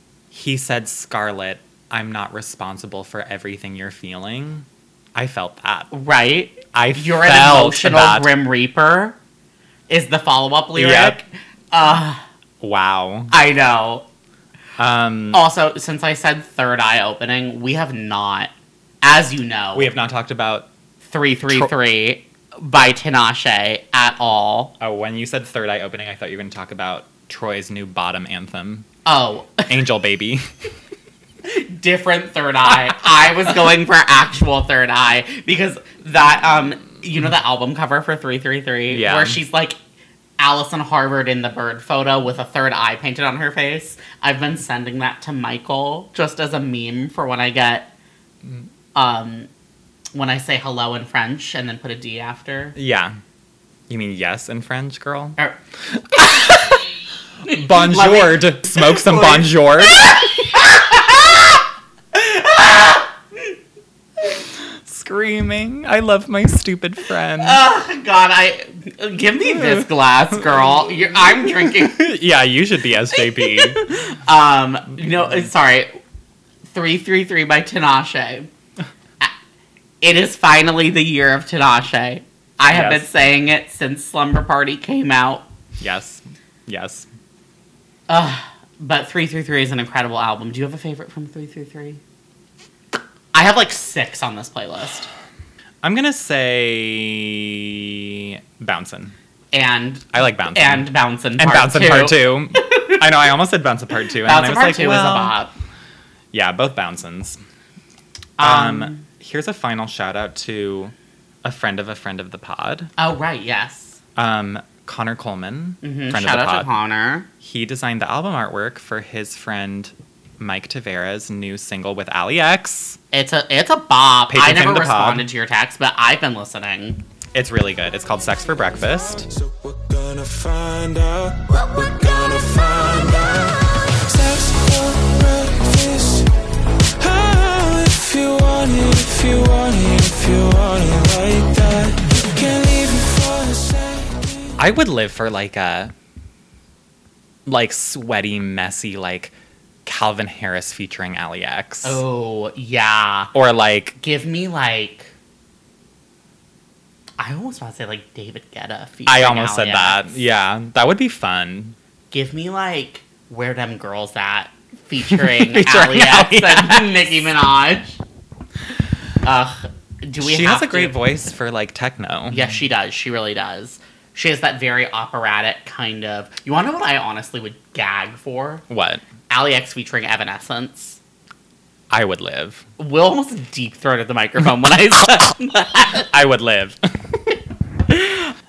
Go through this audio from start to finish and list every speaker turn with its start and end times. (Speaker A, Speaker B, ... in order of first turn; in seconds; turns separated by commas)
Speaker A: 0.3-5.9, Speaker B: 5.9-9.2, Speaker A: 6.7-8.3, Speaker B: 9.9-12.2, Speaker A: 10.7-11.2, Speaker A: 12.6-13.3, Speaker B: 13.3-14.0, Speaker A: 14.8-15.4, Speaker B: 15.3-18.5, Speaker B: 19.0-19.9, Speaker A: 19.7-20.7, Speaker B: 21.0-24.7, Speaker A: 21.4-21.7, Speaker A: 24.8-28.9, Speaker B: 29.0-29.7, Speaker A: 29.7-30.5, Speaker B: 31.4-39.8, Speaker A: 38.9-39.4, Speaker B: 40.4-47.9, Speaker B: 48.9-49.5, Speaker B: 50.1-52.8, Speaker A: 52.8-53.2, Speaker A: 53.9-55.4, Speaker A: 55.9-56.7, Speaker B: 56.2-56.8, Speaker B: 57.5-61.6, Speaker A: 57.5-60.3, Speaker B: 62.1-63.5, Speaker A: 64.7-67.6, Speaker B: 67.4-72.1, Speaker A: 69.5-69.8, Speaker A: 71.4-73.9, Speaker B: 73.2-76.0, Speaker B: 76.7-78.5, Speaker B: 80.0-85.4, Speaker A: 82.7-83.1, Speaker A: 85.8-87.1, Speaker B: 88.1-92.0, Speaker B: 93.3-95.1, Speaker A: 95.8-99.1, Speaker B: 99.5-103.0, Speaker A: 100.1-105.3, Speaker B: 104.2-105.5, Speaker A: 106.3-107.4, Speaker B: 108.4-109.0, Speaker A: 108.4-112.9, Speaker B: 113.0-114.0, Speaker A: 114.2-116.7, Speaker B: 115.8-117.3, Speaker A: 117.4-123.0, Speaker B: 123.1-127.0, Speaker A: 124.3-125.3, Speaker A: 127.3-129.3, Speaker C: 129.3-136.3, Speaker C: 137.0-144.5, Speaker A: 144.6-145.9, Speaker A: 147.4-152.0, Speaker B: 151.8-153.3, Speaker A: 153.3-154.0, Speaker B: 154.0-155.1, Speaker B: 157.2-160.2, Speaker A: 159.1-161.8, Speaker B: 162.1-168.0, Speaker A: 165.1-167.1, Speaker B: 169.2-171.0, Speaker A: 170.2-172.5, Speaker B: 172.3-178.6, Speaker A: 178.7-179.0, Speaker B: 179.3-181.0, Speaker A: 181.9-182.6, Speaker B: 182.8-186.1, Speaker A: 185.9-186.8, Speaker B: 187.9-188.3